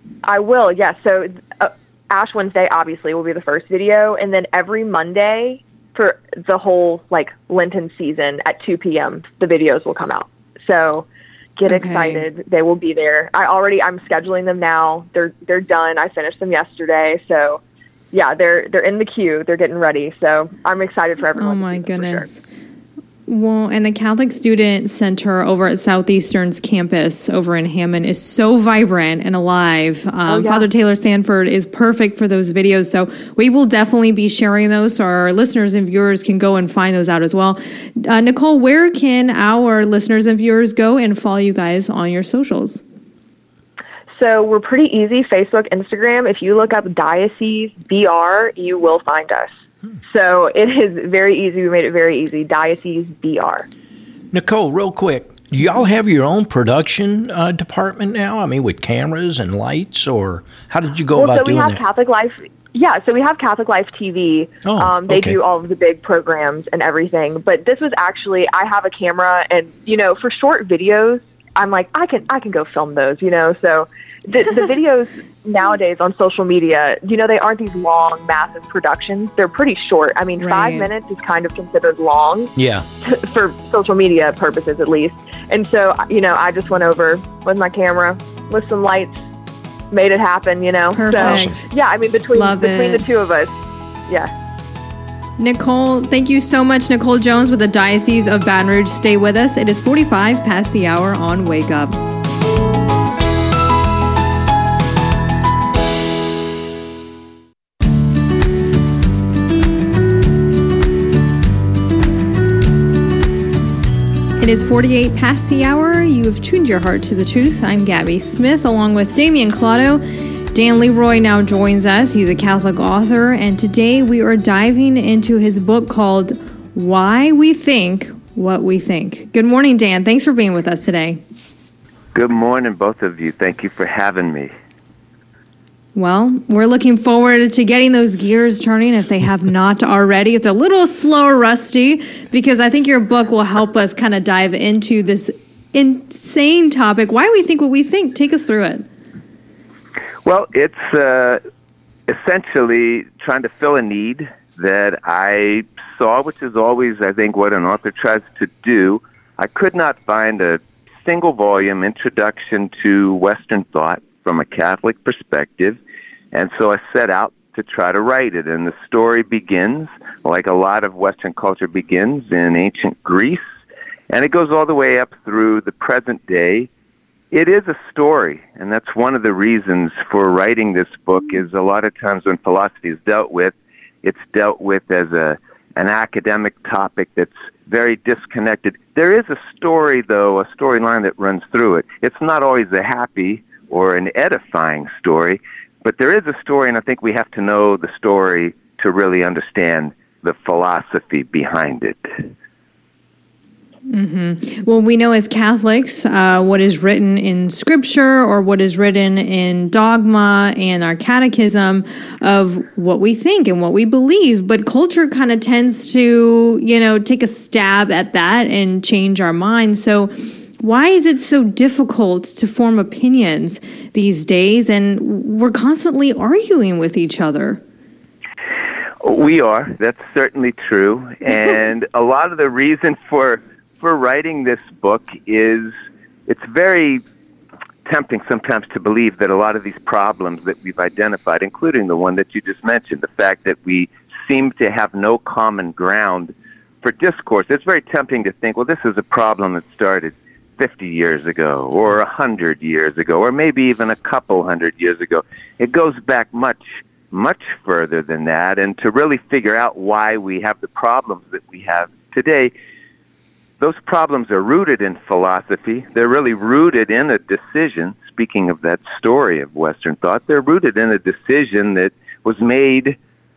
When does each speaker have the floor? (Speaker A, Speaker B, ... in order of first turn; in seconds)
Speaker A: 0.2-17.6, 18.1-22.3, 30.3-30.7, 44.1-49.5, 50.0-53.7, 61.2-89.2, 89.9-93.5
Speaker B: 11.7-12.2, 21.4-22.4, 23.3-42.8, 80.4-80.9, 90.9-91.7, 92.3-93.0, 95.4-102.0, 114.4-131.2, 135.9-148.8, 203.9-227.6
Speaker C: 54.3-61.8, 64.7-65.4, 82.6-82.8, 91.1-91.5
Speaker D: 132.1-134.5, 150.2-151.4, 152.1-165.8, 166.3-173.4, 174.1-176.7, 177.3-202.1, 229.0-235.7, 236.3-237.0, 237.8-262.5, 263.6-273.0